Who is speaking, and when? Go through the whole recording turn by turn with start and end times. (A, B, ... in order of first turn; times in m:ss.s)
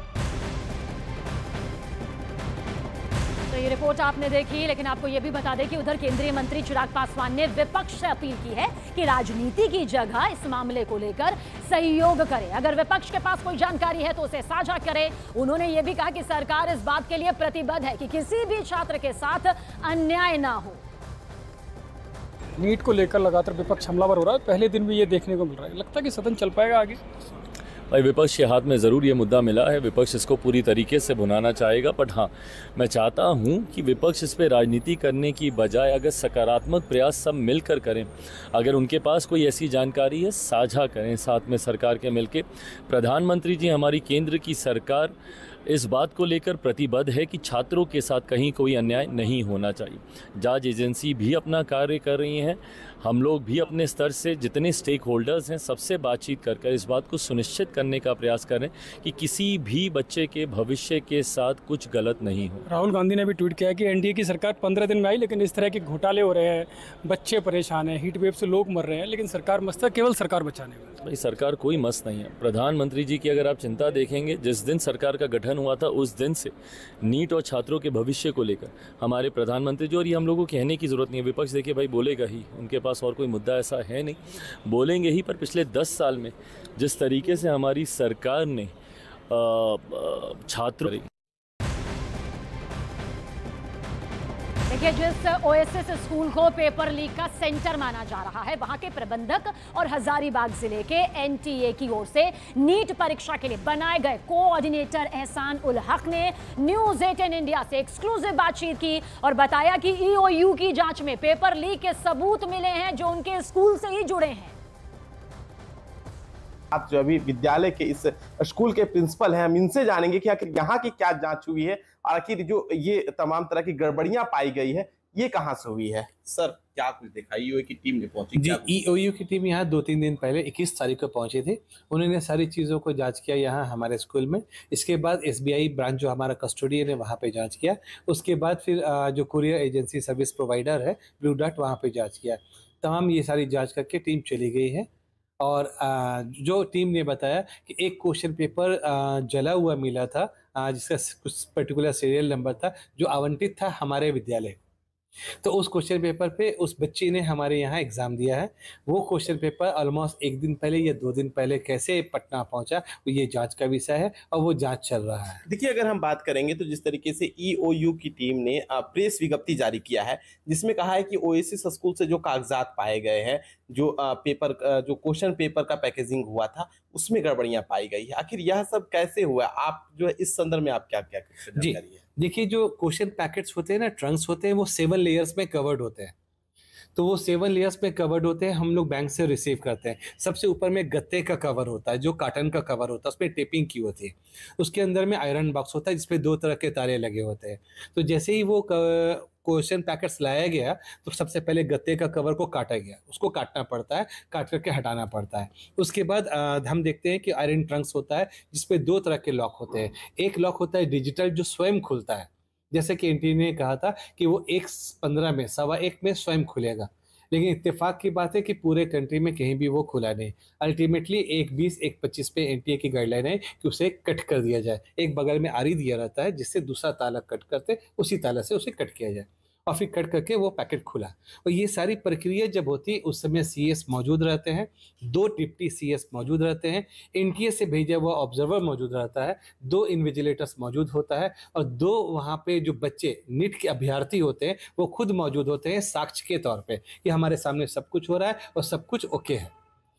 0:03.5-0:20.8 A
0:22.6-0:27.0 B
0:27.9-0:45.1 C
0:45.7-1:02.6 C
1:02.7-1:11.0 B
1:11.0-1:16.5 C
1:17.0-1:28.7 C
1:29.3-1:31.1 C
1:34.7-1:54.6 A
1:56.7-2:08.7 D
2:08.4-2:24.9 E
2:25.4-2:34.6 E
2:35.4-2:45.4 E
2:45.5-3:02.0 D
3:01.6-3:06.1 E
3:07.0-4:09.5 E